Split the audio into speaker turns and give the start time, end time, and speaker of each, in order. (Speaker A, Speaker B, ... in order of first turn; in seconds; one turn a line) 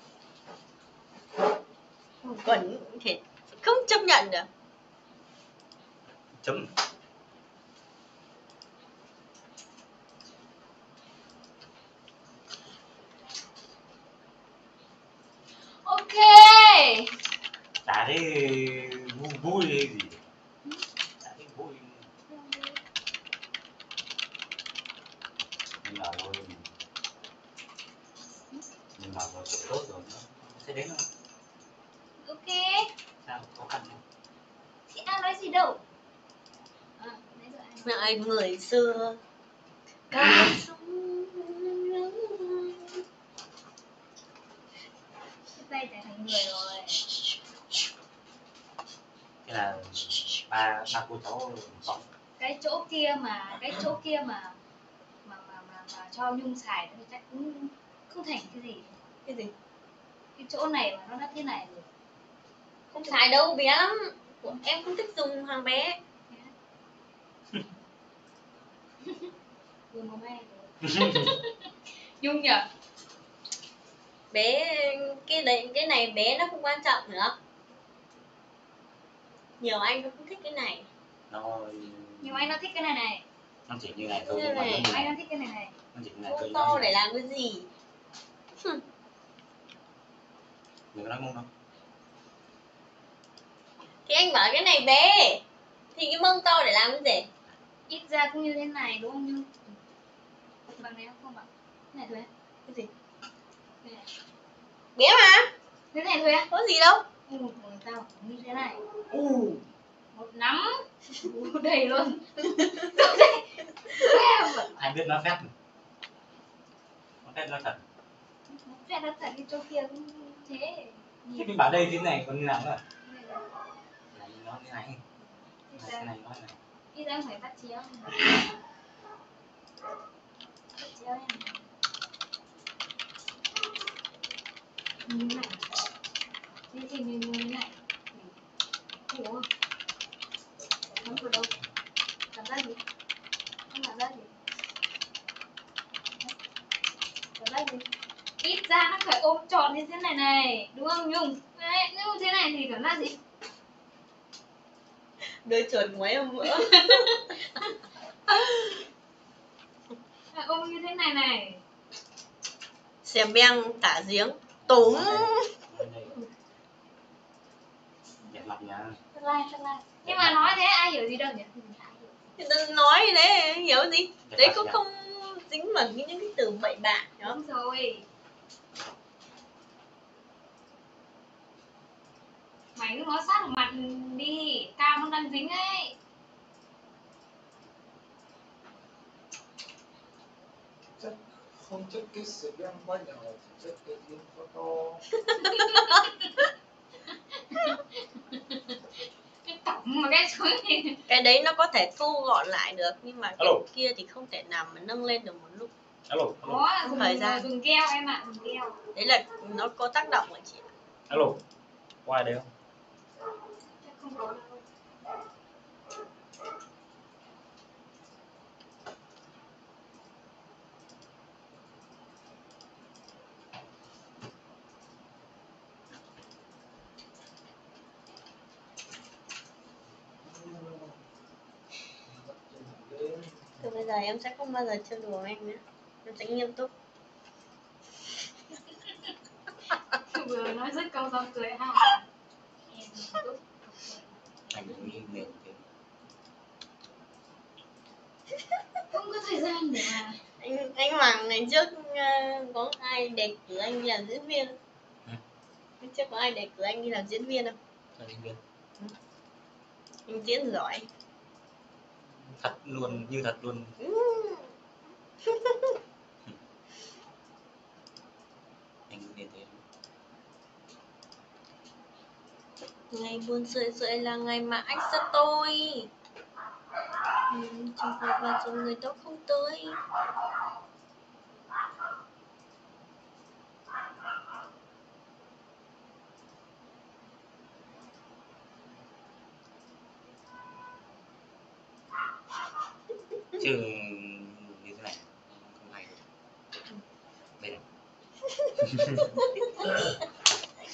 Speaker A: 2.2-4.5
Speaker B: 6.4-6.7
Speaker C: 15.8-17.1
Speaker B: 17.8-20.2
Speaker B: 21.2-22.1
Speaker C: 22.3-22.8
Speaker B: 25.8-26.7
Speaker B: 28.9-31.1
Speaker C: 32.2-32.9
Speaker B: 33.2-34.0
Speaker C: 34.9-35.8
Speaker C: 37.0-38.1
Speaker A: 37.8-39.2
Speaker A: 40.1-43.0
Speaker C: 45.5-47.0
Speaker B: 49.5-52.1
Speaker C: 52.4-54.6
Speaker C: 55.2-58.9
Speaker A: 59.2-59.5
Speaker C: 60.4-61.9
Speaker A: 62.9-66.0
Speaker C: 69.9-72.7
Speaker B: 70.8-71.3
Speaker A: 74.3-77.3
Speaker A: 79.6-80.9
Speaker B: 81.3-82.6
Speaker C: 82.2-83.2
Speaker B: 83.7-85.2
Speaker A: 84.3-84.9
Speaker C: 84.7-85.7
Speaker B: 85.9-87.0
Speaker A: 86.2-87.7
Speaker B: 90.9-91.5
Speaker A: 94.1-95.4
Speaker A: 95.9-97.3
Speaker C: 97.9-99.8
Speaker C: 100.8-102.3
Speaker C: 103.8-104.1
Speaker A: 105.0-105.5
Speaker C: 105.9-106.5
Speaker A: 106.5-107.0
Speaker C: 107.3-108.8
Speaker B: 109.1-109.6
Speaker C: 110.1-114.7
Speaker B: 114.7-115.5
Speaker B: 117.2-117.8
Speaker C: 118.5-121.7
Speaker B: 121.3-122.8
Speaker C: 123.0-123.5
Speaker B: 124.1-125.0
Speaker C: 125.2-126.1
Speaker B: 125.8-126.6
Speaker C: 126.9-128.4
Speaker C: 130.8-131.7
Speaker C: 135.1-135.6
Speaker C: 136.7-138.3
Speaker C: 139.1-139.5
Speaker C: 140.9-141.5
Speaker C: 142.3-142.8
Speaker C: 143.7-144.4
Speaker C: 147.4-147.9
Speaker C: 148.4-153.2
Speaker A: 155.4-157.2
Speaker C: 156.4-157.6
Speaker A: 158.3-158.7
Speaker C: 160.3-161.6
Speaker A: 163.0-165.5
Speaker B: 164.6-166.2
Speaker B: 168.3-169.0
Speaker C: 169.1-172.2
Speaker B: 170.0-170.6
Speaker A: 172.4-177.3
Speaker B: 174.2-174.8
Speaker C: 177.2-178.1
Speaker C: 182.8-185.9
Speaker D: 191.0-195.0
Speaker C: 195.4-196.5
Speaker C: 197.4-198.8
Speaker C: 199.4-201.0
Speaker A: 201.1-205.7
Speaker B: 203.4-203.6
Speaker B: 206.1-206.7
Speaker C: 206.4-208.8
Speaker A: 206.8-207.5
Speaker A: 208.9-210.7
Speaker B: 211.1-211.4
Speaker B: 212.0-212.5
Speaker C: 213.6-214.7
Speaker D: 230.2-230.9
Speaker D: 232.0-233.6
Speaker A: 233.6-236.7
Speaker C: 239.9-242.0
Speaker C: 242.7-245.3
Speaker B: 244.5-245.6
Speaker C: 248.9-250.2
Speaker A: 250.4-254.6
Speaker A: 255.8-257.6
Speaker B: 257.9-258.4
Speaker A: 260.1-260.9
Speaker B: 262.4-263.7
Speaker A: 263.8-264.5
Speaker A: 265.2-265.8
Speaker B: 268.9-269.6
Speaker A: 272.9-275.9
Speaker A: 277.3-279.8
Speaker B: 293.4-296.0
Speaker B: 297.4-297.6
Speaker A: 298.4-299.6
Speaker B: 298.6-299.1